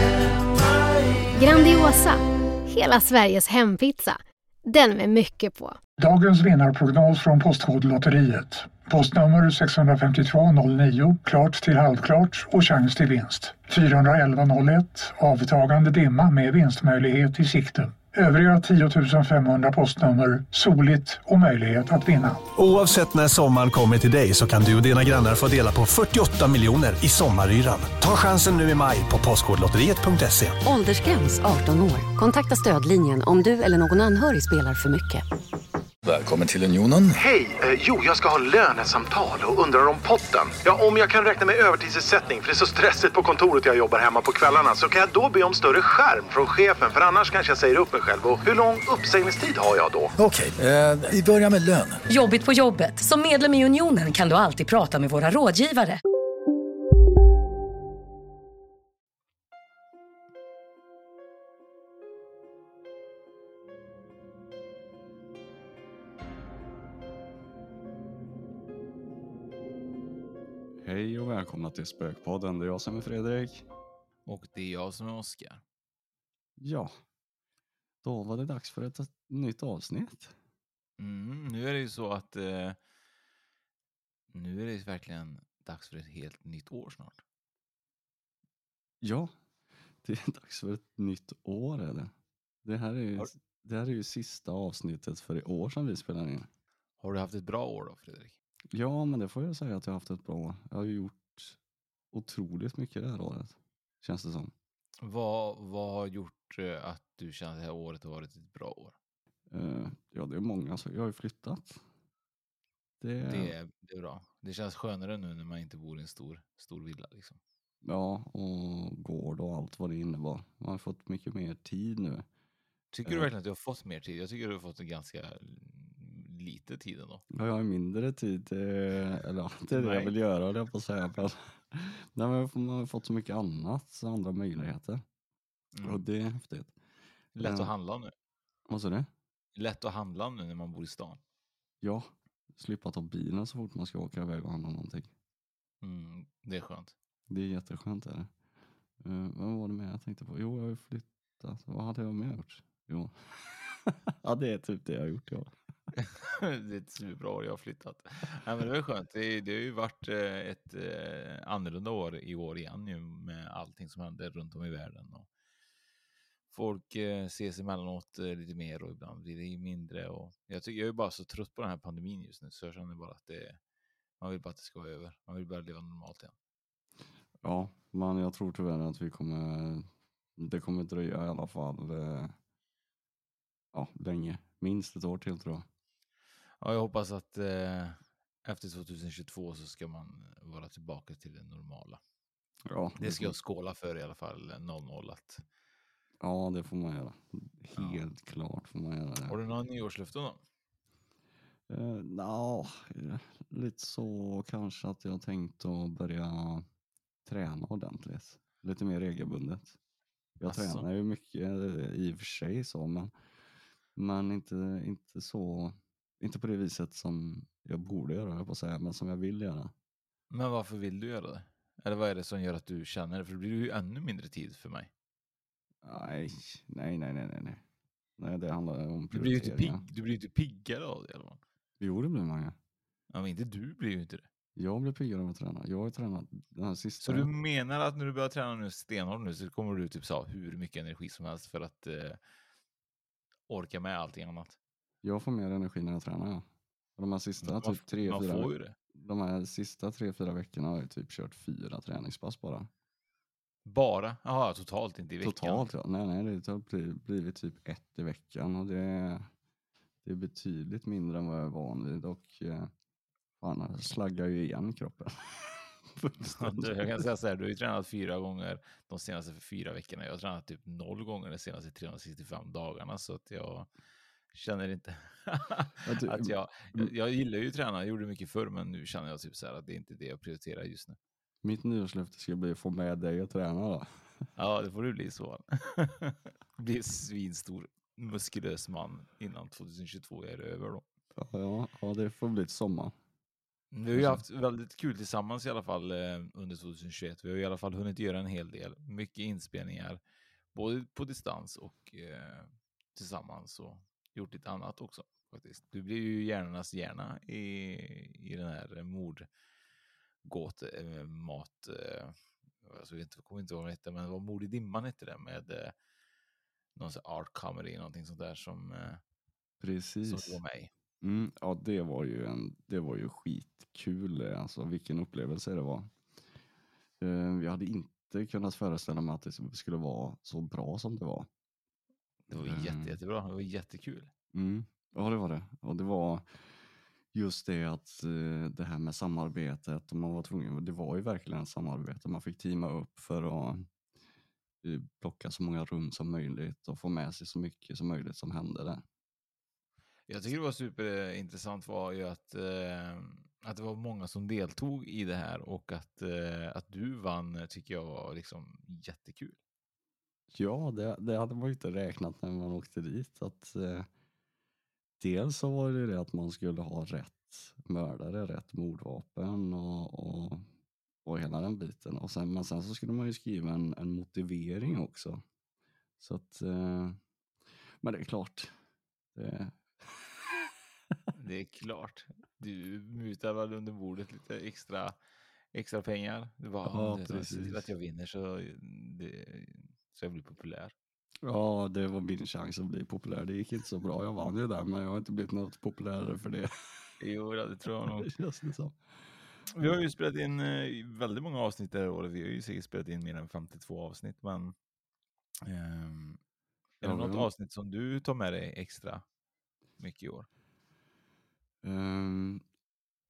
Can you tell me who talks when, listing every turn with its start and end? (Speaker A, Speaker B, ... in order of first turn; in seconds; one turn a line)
Speaker A: 1.4-5.8
Speaker B: 6.0-22.5
Speaker C: 22.5-30.6
Speaker D: 30.6-35.2
Speaker E: 36.0-37.2
Speaker F: 37.1-50.1
Speaker E: 50.2-52.0
Speaker G: 52.1-56.0
Speaker H: 70.8-73.7
Speaker I: 74.3-75.6
Speaker H: 76.6-76.9
Speaker H: 78.0-80.3
Speaker I: 81.0-82.8
Speaker I: 84.3-87.2
Speaker H: 89.0-89.3
Speaker H: 90.0-92.1
Speaker H: 92.6-96.5
Speaker I: 97.0-98.3
Speaker H: 98.7-101.6
Speaker H: 102.1-104.5
Speaker I: 105.0-109.0
Speaker H: 109.5-111.8
Speaker H: 113.0-113.5
Speaker I: 113.3-117.4
Speaker H: 117.8-122.3
Speaker I: 122.9-127.2
Speaker H: 127.3-135.0
Speaker I: 129.7-130.2
Speaker I: 135.8-136.0
Speaker H: 135.8-136.8
Speaker H: 137.3-137.7
Speaker I: 137.4-138.1
Speaker H: 138.7-139.1
Speaker I: 139.6-141.2
Speaker H: 141.8-145.1
Speaker I: 145.8-146.9
Speaker H: 147.3-148.3
Speaker H: 149.0-155.6
Speaker I: 156.0-165.3
Speaker I: 166.5-173.6
Speaker I: 174.2-176.3
Speaker H: 177.4-182.3
Speaker H: 183.7-185.7
Speaker I: 186.6-192.0
Speaker H: 192.7-193.3
Speaker I: 193.0-195.4
Speaker H: 196.2-199.4
Speaker I: 197.8-198.0
Speaker I: 199.2-200.4
Speaker H: 201.7-206.7
Speaker H: 207.2-209.8
Speaker H: 210.4-213.1
Speaker I: 210.5-210.9
Speaker H: 214.0-219.7
Speaker I: 220.3-224.9
Speaker H: 225.8-227.6
Speaker H: 228.2-229.8
Speaker I: 229.1-231.4
Speaker H: 231.8-232.6
Speaker I: 233.1-234.3
Speaker H: 234.6-237.3
Speaker I: 237.0-242.2
Speaker I: 243.5-244.6
Speaker H: 245.0-246.5
Speaker H: 247.0-252.7
Speaker I: 247.4-248.8
Speaker I: 253.7-255.7
Speaker H: 255.2-259.3
Speaker H: 260.0-262.7
Speaker H: 263.4-267.0
Speaker I: 266.3-273.7
Speaker I: 274.3-281.0
Speaker H: 275.9-276.9
Speaker H: 281.4-284.0
Speaker I: 284.4-290.9
Speaker H: 291.1-292.9
Speaker I: 293.7-300.0
Speaker H: 293.9-294.2
Speaker I: 300.5-309.3
Speaker I: 310.2-315.8
Speaker I: 316.8-319.0
Speaker H: 319.6-320.4
Speaker I: 320.1-320.7
Speaker H: 321.0-325.9
Speaker H: 327.0-331.3
Speaker I: 332.3-334.1
Speaker H: 332.3-333.0
Speaker H: 334.3-336.6
Speaker H: 337.1-343.7
Speaker H: 344.6-348.8
Speaker I: 350.1-359.4
Speaker H: 360.3-363.9
Speaker H: 365.0-370.5
Speaker H: 371.1-375.2
Speaker H: 376.0-377.0
Speaker H: 377.8-378.6
Speaker H: 379.1-380.5
Speaker I: 381.1-385.0
Speaker I: 385.5-390.7
Speaker H: 386.6-387.6
Speaker H: 391.2-396.5
Speaker I: 397.0-398.1
Speaker H: 397.8-398.8
Speaker I: 399.5-404.6
Speaker I: 405.5-406.2
Speaker I: 406.8-409.1
Speaker H: 406.8-407.3
Speaker I: 409.8-410.3
Speaker H: 411.6-412.4